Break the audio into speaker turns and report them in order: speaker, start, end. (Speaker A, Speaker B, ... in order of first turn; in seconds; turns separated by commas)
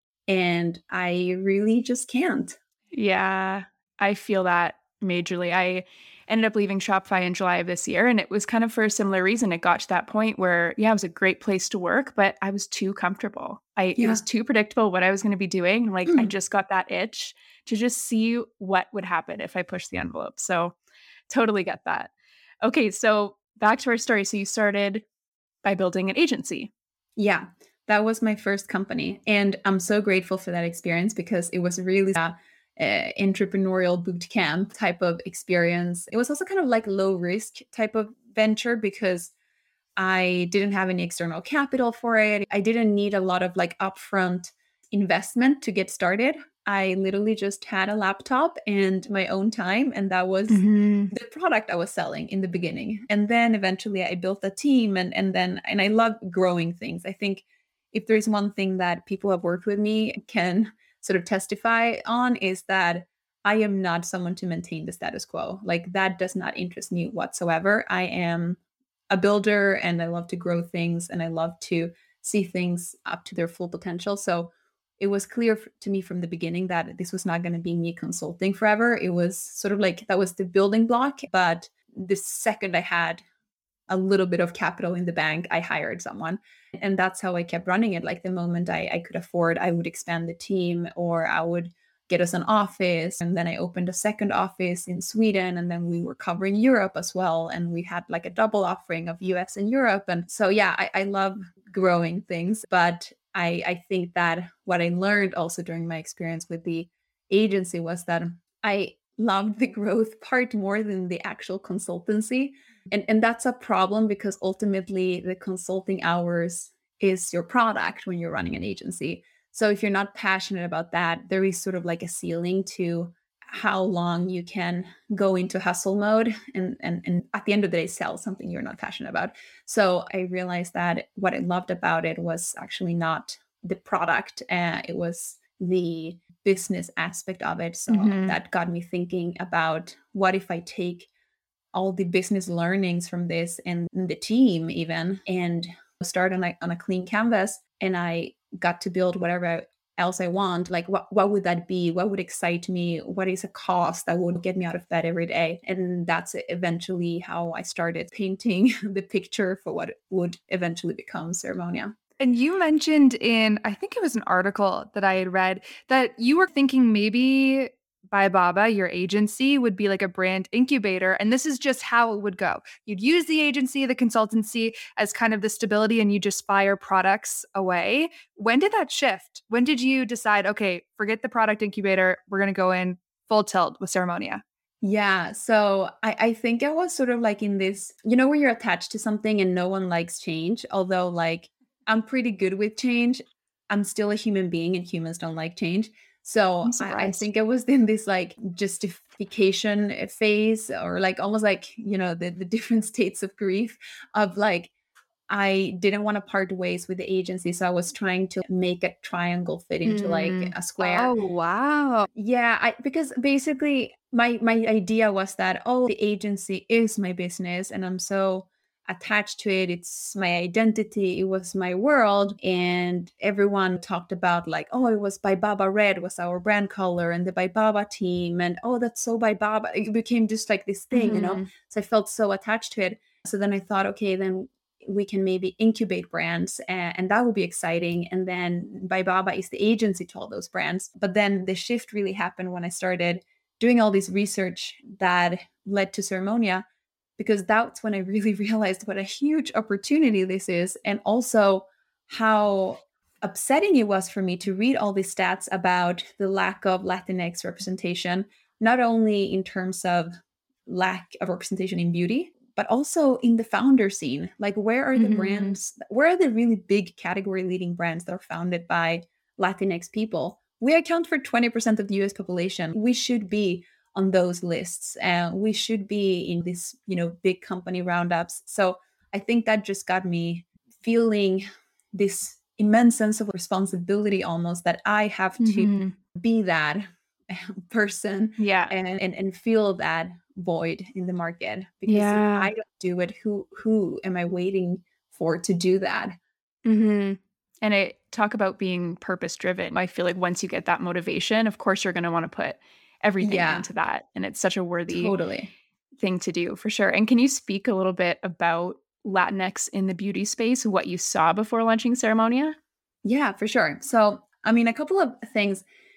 Speaker A: 0.3-2.6, Speaker B: 2.9-20.7, Speaker A: 14.0-14.2, Speaker A: 16.1-16.3, Speaker B: 21.3-22.1, Speaker B: 22.6-25.0, Speaker B: 25.6-26.7, Speaker A: 27.1-39.3, Speaker A: 40.0-68.6, Speaker B: 50.5-51.1, Speaker A: 69.1-83.2, Speaker A: 83.9-141.1, Speaker B: 137.9-138.4, Speaker A: 141.7-161.9, Speaker C: 162.2-184.4, Speaker A: 184.8-204.7, Speaker B: 196.7-197.2, Speaker A: 205.3-211.1, Speaker B: 209.8-210.5, Speaker C: 210.8-212.1, Speaker A: 212.1-246.6, Speaker B: 230.9-231.5, Speaker A: 247.2-260.1, Speaker A: 260.6-296.2, Speaker B: 264.9-265.6, Speaker B: 285.4-285.9, Speaker B: 288.4-288.7, Speaker B: 291.9-292.5, Speaker B: 296.6-305.1, Speaker A: 303.2-303.7, Speaker A: 304.9-305.5, Speaker B: 306.0-312.6, Speaker A: 313.0-315.6